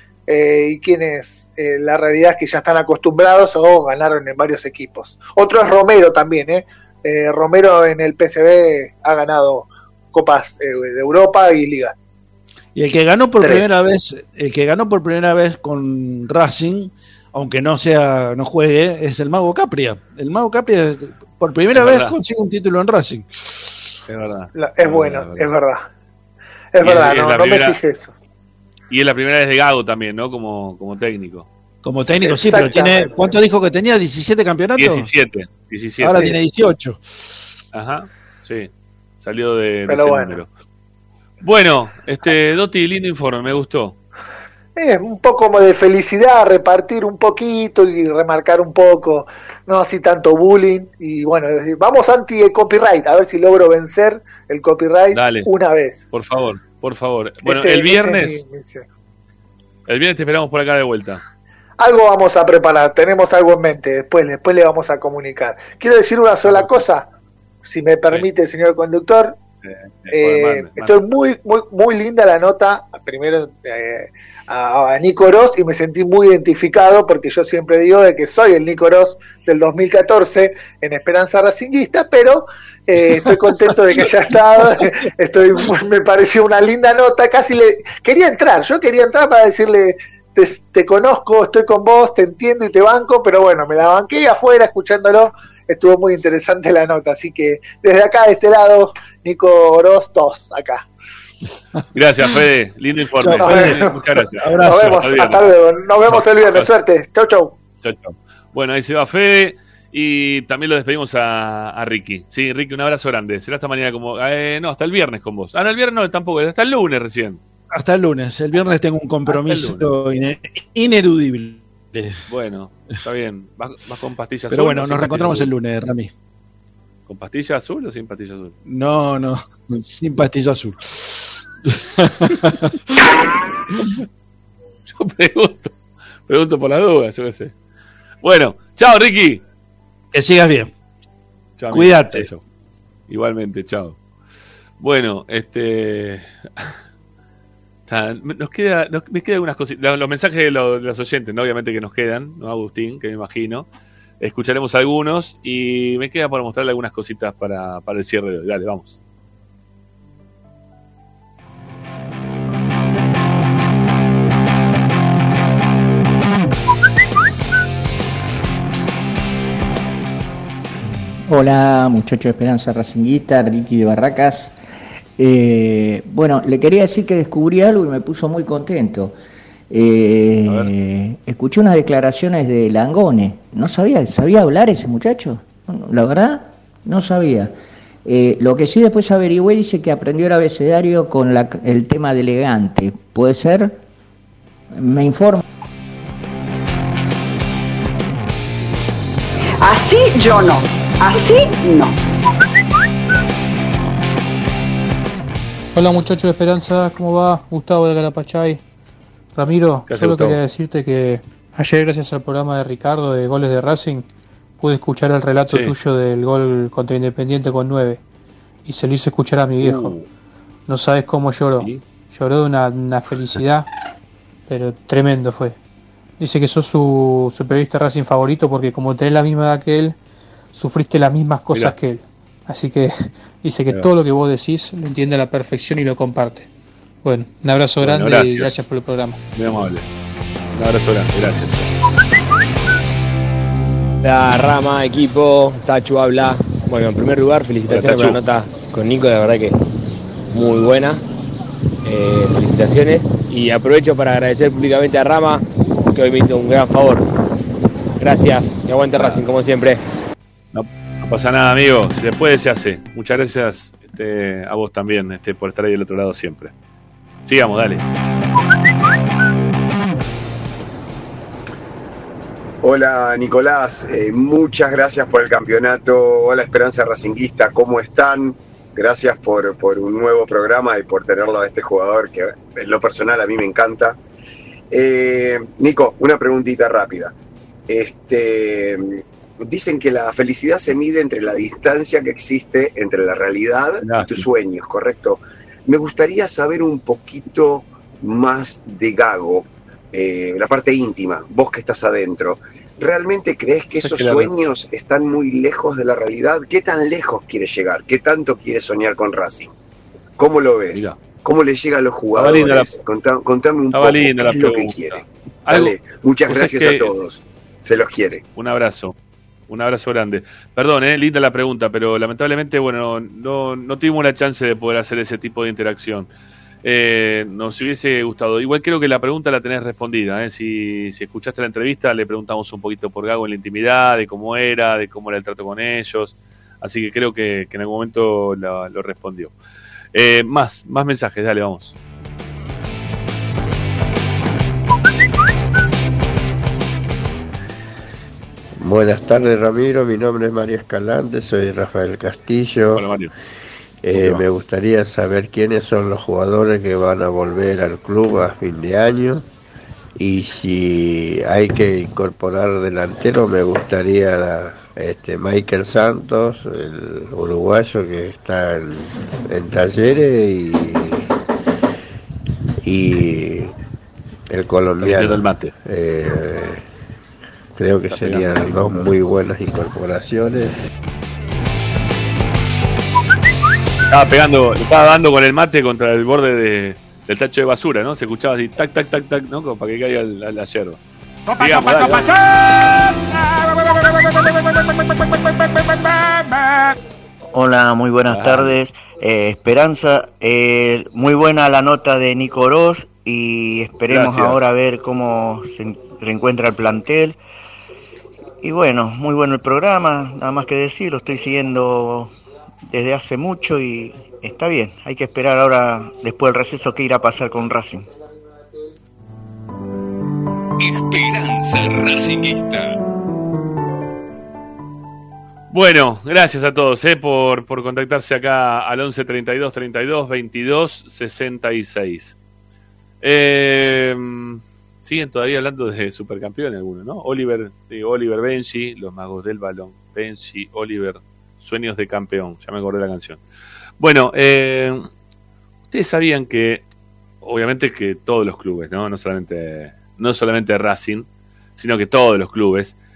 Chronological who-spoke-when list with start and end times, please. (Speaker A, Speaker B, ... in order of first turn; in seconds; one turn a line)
Speaker A: 0.3-11.9
Speaker B: 12.8-23.9
Speaker A: 13.4-13.7
Speaker C: 21.8-22.1
Speaker C: 24.1-25.5
Speaker A: 24.6-25.9
Speaker A: 26.7-28.1
Speaker C: 26.8-27.8
Speaker C: 28.9-31.5
Speaker B: 31.8-35.1
Speaker A: 32.2-33.4
Speaker C: 34.8-36.4
Speaker B: 36.0-37.3
Speaker C: 37.7-40.5
Speaker A: 39.9-40.4
Speaker C: 41.4-44.0
Speaker A: 44.8-56.0
Speaker C: 55.1-55.5
Speaker C: 56.1-58.4
Speaker A: 57.4-58.9
Speaker C: 59.9-61.2
Speaker A: 61.8-67.1
Speaker C: 66.5-66.8
Speaker A: 67.6-69.4
Speaker C: 69.6-71.0
Speaker A: 70.1-100.9
Speaker B: 83.1-84.1
Speaker C: 101.9-105.5
Speaker B: 103.2-105.0
Speaker A: 103.4-104.0
Speaker A: 104.7-107.6
Speaker C: 106.1-106.7
Speaker C: 107.8-117.4
Speaker B: 117.7-122.2
Speaker C: 119.3-120.0
Speaker C: 122.3-125.5
Speaker B: 124.5-126.1
Speaker C: 127.1-128.6
Speaker B: 128.7-132.8
Speaker C: 134.9-135.7
Speaker C: 136.3-137.5
Speaker C: 138.2-139.4
Speaker B: 140.1-140.7
Speaker C: 141.6-142.4
Speaker B: 141.7-142.3
Speaker C: 143.1-144.0
Speaker C: 144.8-146.7
Speaker C: 147.9-153.7
Speaker C: 154.2-159.0
Speaker D: 171.2-174.6
Speaker D: 175.2-179.1
Speaker D: 179.7-187.5
Speaker C: 180.5-180.7
Speaker D: 188.1-193.8
Speaker D: 194.7-195.4
Speaker E: 199.6-202.0
Speaker F: 205.7-208.6
Speaker F: 209.3-214.1
Speaker C: 209.9-210.4
Speaker F: 214.6-218.0
Speaker C: 215.5-215.8
Speaker F: 218.7-220.0
Speaker C: 219.6-220.0
Speaker F: 220.7-223.7
Speaker F: 224.5-225.6
Speaker F: 226.2-230.0
Speaker F: 230.5-236.5
Speaker F: 237.0-239.2
Speaker C: 237.8-238.6
Speaker C: 239.3-239.9
Speaker C: 240.6-241.7
Speaker G: 244.0-249.5
Speaker C: 247.7-248.2
Speaker G: 250.3-251.0
Speaker G: 251.8-257.1
Speaker G: 258.0-259.8
Speaker C: 258.9-259.2
Speaker C: 260.5-266.5
Speaker C: 267.2-267.8
Speaker H: 272.6-284.0
Speaker H: 284.7-287.1
Speaker H: 287.7-309.5
Speaker C: 293.8-294.2
Speaker C: 303.8-304.3
Speaker H: 310.2-318.2
Speaker C: 312.1-312.7
Speaker C: 313.7-315.8
Speaker C: 316.3-316.9
Speaker C: 318.4-318.9
Speaker C: 319.5-326.1
Speaker C: 326.6-339.3
Speaker C: 339.9-341.8
Speaker I: 348.6-352.9
Speaker C: 352.7-353.1
Speaker I: 353.8-359.3
Speaker C: 353.9-354.2
Speaker I: 360.0-371.0
Speaker I: 372.6-373.6
Speaker I: 374.3-376.7
Speaker C: 374.8-375.5
Speaker I: 377.6-380.6
Speaker C: 377.9-378.9
Speaker C: 383.9-390.8
Speaker F: 391.3-392.5
Speaker C: 391.4-392.1
Speaker J: 397.3-407.2
Speaker C: 398.1-398.6
Speaker C: 403.9-404.4
Speaker J: 408.4-412.1
Speaker J: 412.7-417.9
Speaker K: 420.6-422.8
Speaker C: 425.5-432.2
Speaker C: 433.0-443.2
Speaker C: 443.8-444.9
Speaker C: 445.7-446.6
Speaker C: 447.2-451.1
Speaker C: 451.6-452.8